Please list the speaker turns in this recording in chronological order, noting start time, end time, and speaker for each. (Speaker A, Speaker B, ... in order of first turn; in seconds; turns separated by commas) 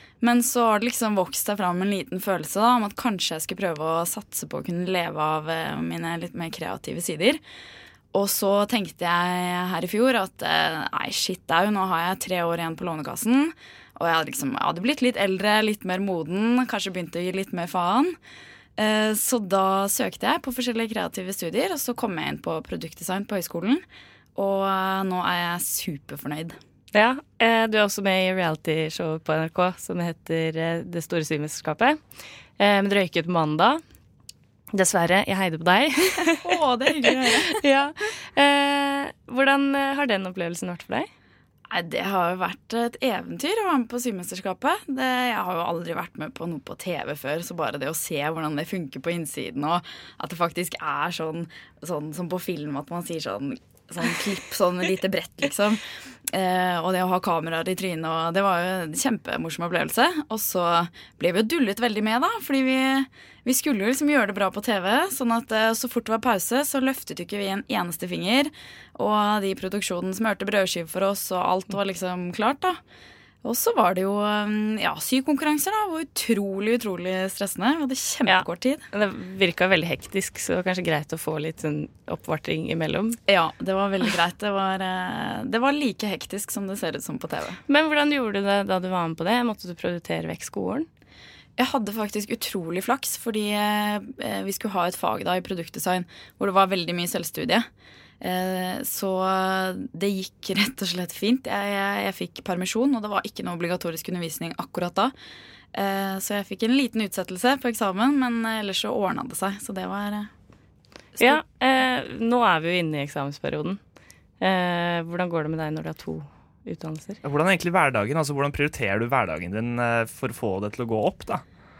Speaker A: 0.2-7.4, Speaker A: 8.1-18.1, Speaker A: 18.8-23.8, Speaker A: 24.4-26.6, Speaker B: 26.9-32.0, Speaker B: 32.6-33.8, Speaker B: 34.7-36.4, Speaker A: 36.3-37.6, Speaker B: 37.1-41.1, Speaker A: 41.7-72.8, Speaker A: 73.4-78.8, Speaker B: 78.3-83.2, Speaker A: 83.3-87.6, Speaker B: 87.7-90.9, Speaker A: 91.6-97.7, Speaker A: 98.2-105.1, Speaker A: 105.7-110.3, Speaker B: 111.2-113.8, Speaker B: 114.4-117.2, Speaker C: 117.2-121.4